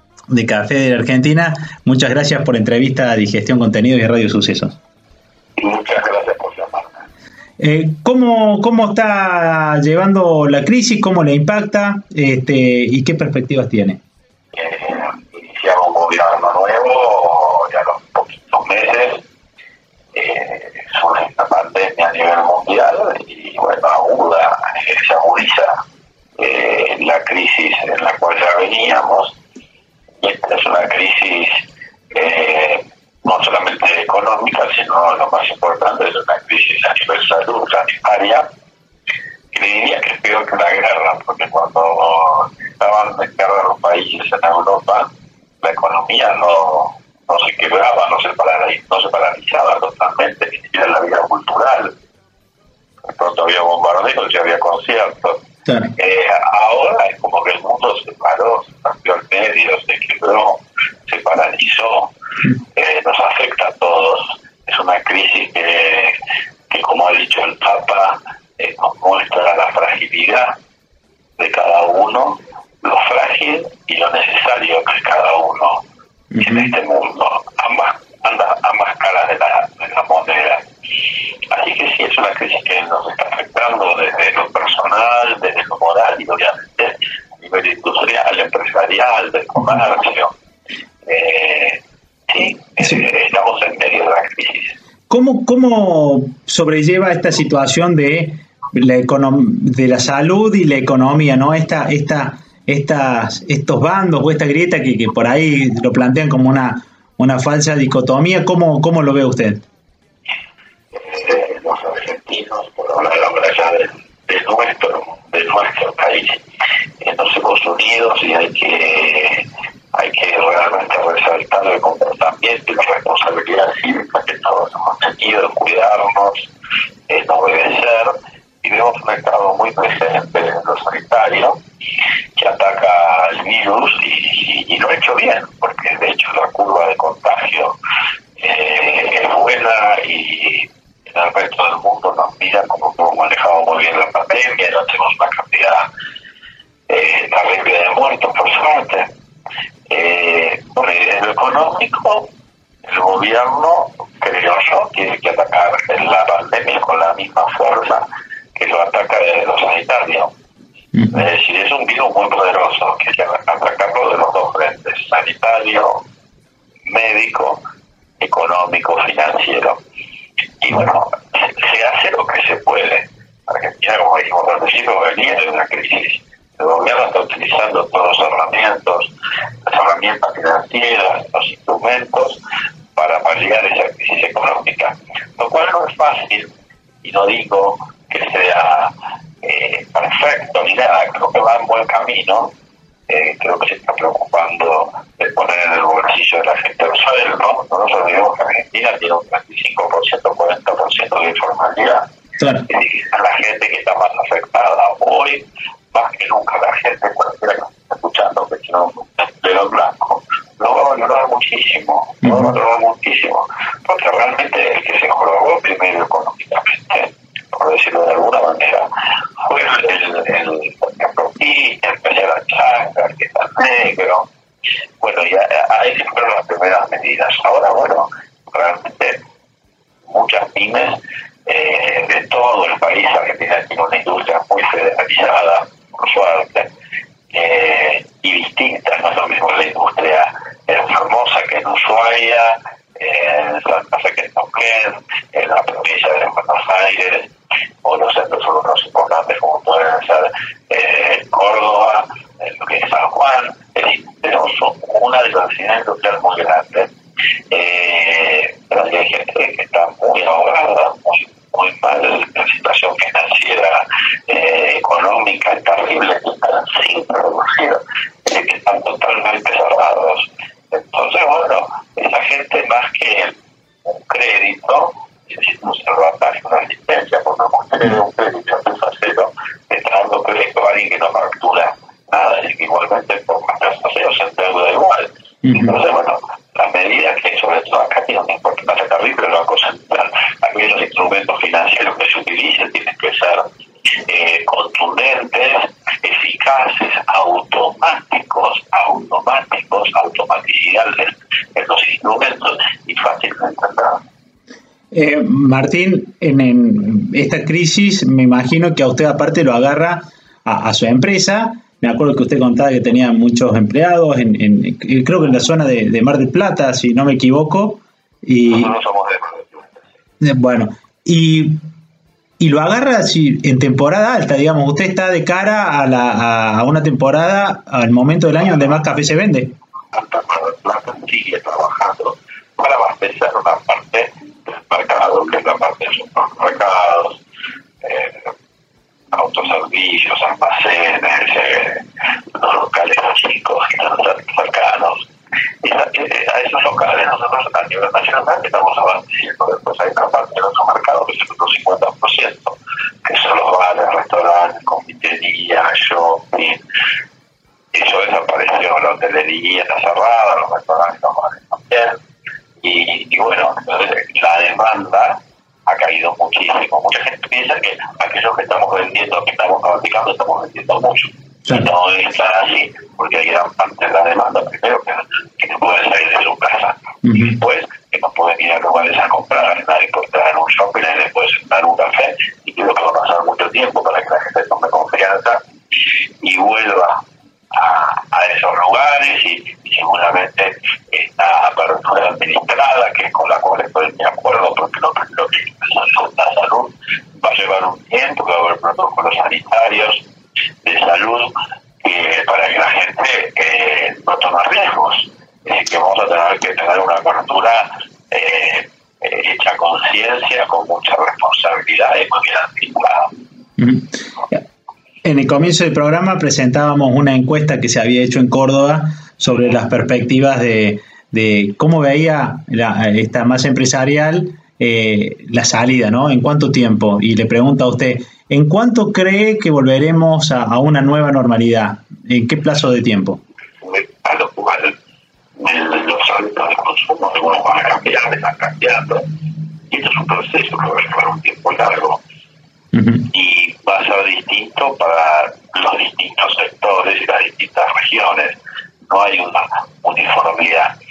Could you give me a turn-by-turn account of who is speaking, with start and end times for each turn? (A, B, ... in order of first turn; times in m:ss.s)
0:00.3-0:04.8 A
0:05.6-0:07.1 B
0:07.6-0:14.0 A
0:14.5-0:19.2 B
0:20.1-0:25.7 B
0:26.4-0:29.4 B
0:30.2-0:31.6 B
0:32.1-0:38.4 B
0:39.5-0:45.1 B
0:45.6-0:51.9 B
0:53.1-0:55.4 B
0:55.7-0:55.9 A
0:56.0-1:02.1 B
1:02.8-1:06.1 B
1:06.7-1:10.5 B
1:11.4-1:15.8 B
1:16.3-1:16.7 A
1:16.4-1:20.6 B
1:21.5-1:30.3 B
1:31.0-1:34.8 B
1:35.1-1:49.6 A
1:50.9-1:56.4 B
1:57.0-2:06.5 B
2:07.1-2:11.6 B
2:12.4-2:17.8 B
2:18.4-2:25.8 B
2:26.9-2:29.1 B
2:29.9-2:32.3 B
2:32.8-2:38.0 B
2:38.6-2:40.3 B
2:41.1-2:46.0 B
2:46.9-2:47.6 B
2:48.2-2:49.8 B
2:50.6-2:59.1 B
2:59.7-3:02.4 B
3:03.0-3:06.5 B
3:07.0-3:08.9 B
3:09.4-3:12.5 B
3:13.1-3:22.0 B
3:22.4-3:22.7 A
3:22.7-3:38.9 B
3:32.2-3:32.6 A
3:39.4-3:44.3 B
3:45.0-3:49.2 B
3:50.1-3:56.7 B
3:57.3-4:07.3 B
4:07.8-4:16.9 B
4:17.5-4:53.4 B
4:45.5-4:45.8 A
4:54.1-5:04.0 B
5:04.9-5:18.7 A
5:18.4-5:19.8 B
5:20.2-5:21.6 A
5:22.4-5:29.5 A
5:29.9-5:37.2 B
5:37.8-5:38.3 B
5:39.1-5:45.0 B
5:45.6-5:56.6 B
5:57.7-6:02.0 B
6:02.6-6:25.4 B
6:17.0-6:17.4 A
6:26.2-6:27.0 B
6:27.5-6:40.0 B
6:40.6-6:41.3 B
6:41.8-6:53.1 B
6:53.6-6:54.4 A
6:55.0-7:13.2 A
7:13.6-7:14.7 B
7:15.4-7:19.0 B
7:19.7-7:22.0 B
7:22.7-7:23.1 A
7:23.1-7:28.4 B
7:28.9-7:30.7 B